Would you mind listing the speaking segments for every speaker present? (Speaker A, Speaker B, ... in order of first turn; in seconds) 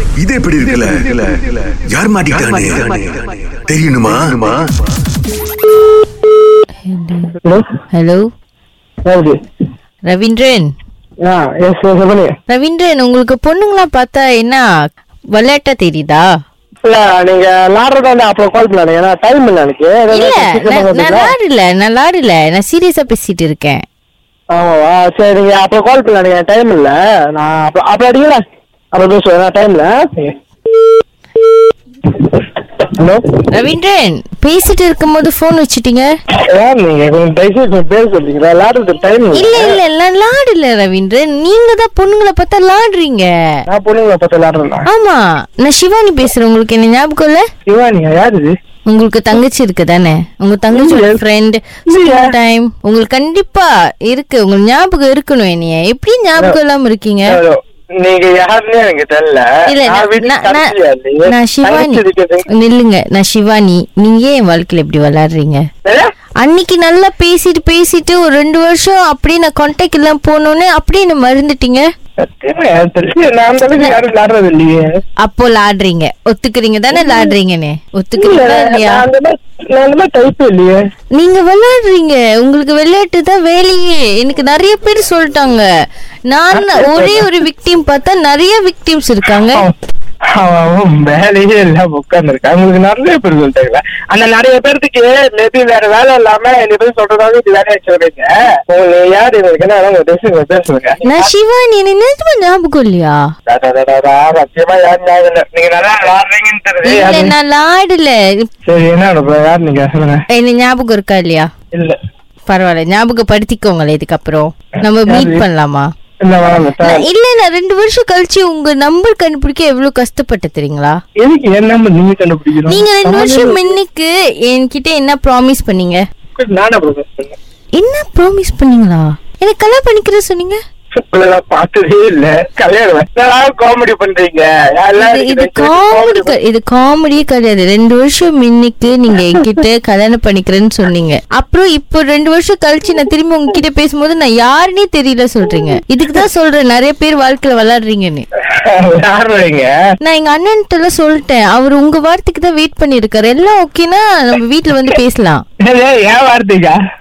Speaker A: 0.2-4.6
Speaker B: 6.8-7.3, 7.9-8.2, 10.1-10.7, 12.5-14.7, 15.3-16.2, 20.1-23.8, 33.5-36.1, 39.3-43.3, 44.9-47.4, 48.9-57.4, 59.7-60.7, 61.3-65.6, 66.4-71.8, 75.2-79.0, 81.1-85.6, 86.3-89.7, 101.0-103.2, 106.8-108.5, 110.3-111.5, 112.5-115.9, 116.8-121.0, 122.7-126.0, 127.8-130.6, 135.0-148.2, 150.0-155.4
Speaker C: 9.1-9.4, 11.2-12.3, 16.8-21.3, 24.5-28.4, 28.9-30.3, 33.0-33.2, 36.5-39.8, 43.7-44.9, 47.6-48.5, 50.7-51.2, 51.9-52.3, 57.3-62.5, 72.2-75.0, 76.9-77.3, 78.2-80.8, 86.5-87.3, 90.3-101.3, 103.5-107.3, 108.7-110.2, 115.1-115.4, 116.2-117.1, 121.2-123.7, 126.3-127.3, 130.9-136.3, 148.5-149.7, 155.6-156.8